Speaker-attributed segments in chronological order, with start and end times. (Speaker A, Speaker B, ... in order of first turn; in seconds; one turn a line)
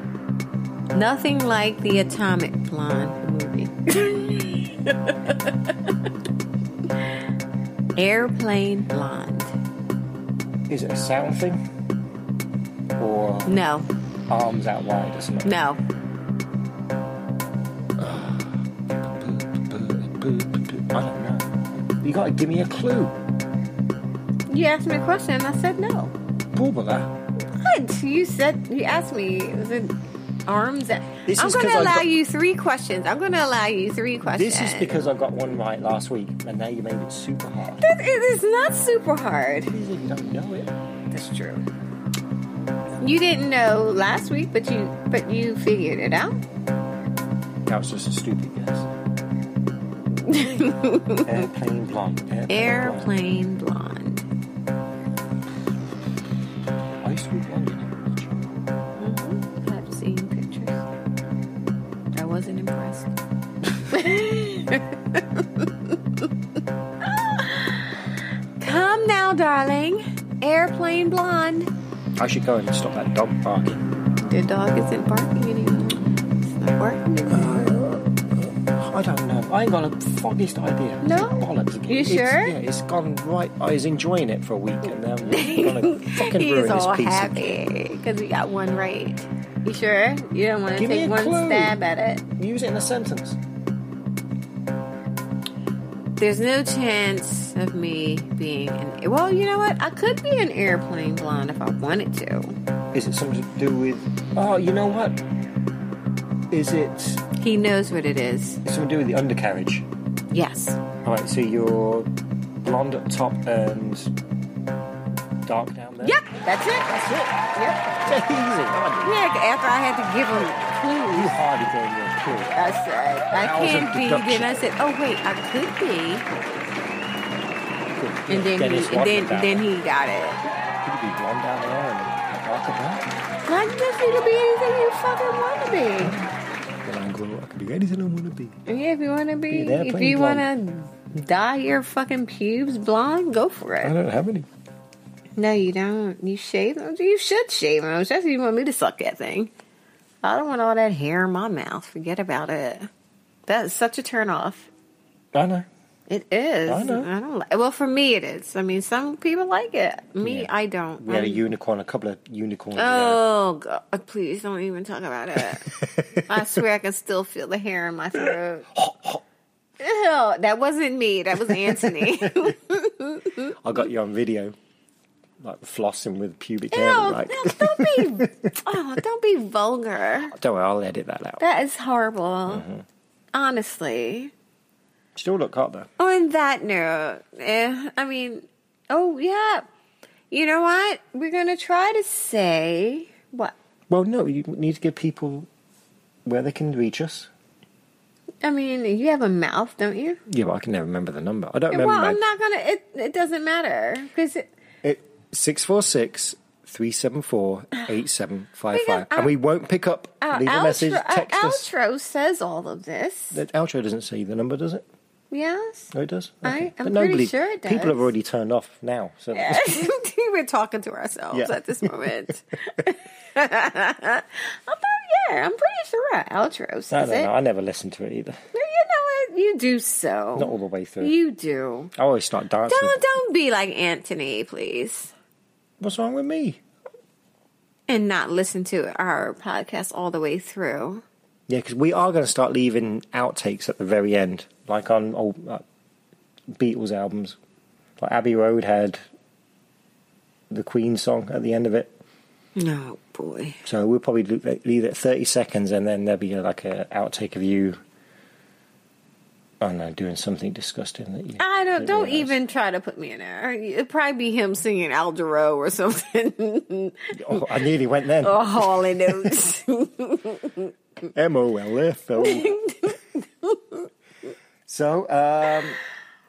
Speaker A: 0.9-6.1
Speaker A: 8.0-9.6
Speaker B: 10.7-11.6
Speaker B: 13.0-13.6
Speaker A: 13.4-13.9
Speaker B: 14.3-15.6
Speaker A: 15.4-15.8
Speaker B: 18.0-23.1
Speaker A: 24.5-26.1
Speaker B: 26.5-27.1
Speaker A: 27.5-29.9
Speaker A: 30.5-35.0
Speaker B: 31.2-32.1
Speaker B: 34.2-37.9
Speaker A: 37.8-39.7
Speaker B: 39.7-40.7
Speaker A: 41.1-41.7
Speaker A: 43.0-46.4
Speaker B: 47.6-48.9
Speaker A: 50.2-51.5
Speaker B: 51.2-53.1
Speaker A: 52.5-54.2
Speaker B: 57.0-58.5
Speaker A: 59.0-60.8
Speaker A: 62.1-63.1
Speaker A: 63.9-66.2
Speaker A: 67.0-71.7
Speaker B: 72.2-73.9
Speaker A: 74.2-77.8
Speaker B: 77.3-87.6
Speaker A: 81.0-82.5
Speaker A: 85.3-92.2
Speaker B: 90.8-91.8
Speaker B: 92.3-93.4
Speaker A: 96.2-102.6
Speaker B: 102.9-105.2
Speaker B: 106.5-107.2
Speaker A: 107.3-108.6
Speaker B: 108.6-109.9
Speaker A: 110.3-110.8
Speaker B: 111.0-112.1
Speaker B: 112.6-114.1
Speaker B: 115.4-116.2
Speaker A: 116.0-117.8
Speaker B: 116.7-119.2
Speaker A: 119.0-121.4
Speaker B: 121.1-122.6
Speaker A: 122.5-126.3
Speaker B: 123.3-124.6
Speaker B: 127.9-129.6
Speaker A: 128.3-130.4
Speaker B: 130.7-133.1
Speaker A: 133.4-136.2
Speaker B: 136.0-136.3
Speaker B: 136.8-138.6
Speaker A: 138.7-143.9
Speaker B: 139.5-140.5
Speaker B: 143.8-144.5
Speaker A: 145.3-149.5
Speaker A: 150.2-152.9
Speaker A: 153.5-154.7
Speaker B: 155.3-155.7
Speaker A: 156.1-161.4
Speaker B: 156.7-157.1
Speaker B: 160.2-163.2
Speaker A: 162.7-165.7
Speaker B: 165.4-166.5
Speaker A: 166.2-168.7
Speaker B: 168.1-169.2
Speaker A: 169.8-173.6
Speaker B: 171.4-172.5
Speaker B: 173.5-174.5
Speaker B: 175.4-178.6
Speaker A: 176.7-180.3
Speaker B: 180.2-181.4
Speaker A: 181.4-182.7
Speaker B: 182.5-182.8
Speaker A: 183.3-184.3
Speaker B: 185.2-185.9
Speaker A: 186.0-189.7
Speaker A: 190.3-193.5
Speaker B: 193.9-195.5
Speaker B: 196.2-197.3
Speaker A: 198.4-200.2
Speaker B: 200.3-202.2
Speaker A: 201.7-204.5
Speaker B: 204.8-211.7
Speaker A: 208.7-209.3
Speaker A: 210.2-213.4
Speaker B: 213.3-214.8
Speaker A: 215.3-215.9
Speaker B: 215.9-219.9
Speaker A: 216.4-218.1
Speaker A: 219.3-227.3
Speaker B: 221.3-222.1
Speaker B: 226.9-228.4
Speaker A: 228.5-231.9
Speaker B: 230.3-231.1
Speaker B: 231.9-233.0
Speaker A: 232.7-235.1
Speaker B: 235.8-236.6
Speaker A: 237.9-241.0
Speaker B: 241.5-245.6
Speaker B: 246.6-247.4
Speaker B: 248.0-249.0
Speaker B: 250.5-251.9
Speaker A: 252.6-253.6
Speaker B: 253.6-257.8
Speaker B: 259.6-262.3
Speaker A: 261.4-267.6
Speaker B: 267.1-269.4
Speaker A: 268.2-270.7
Speaker B: 271.1-272.6
Speaker A: 272.2-273.9
Speaker B: 274.6-275.8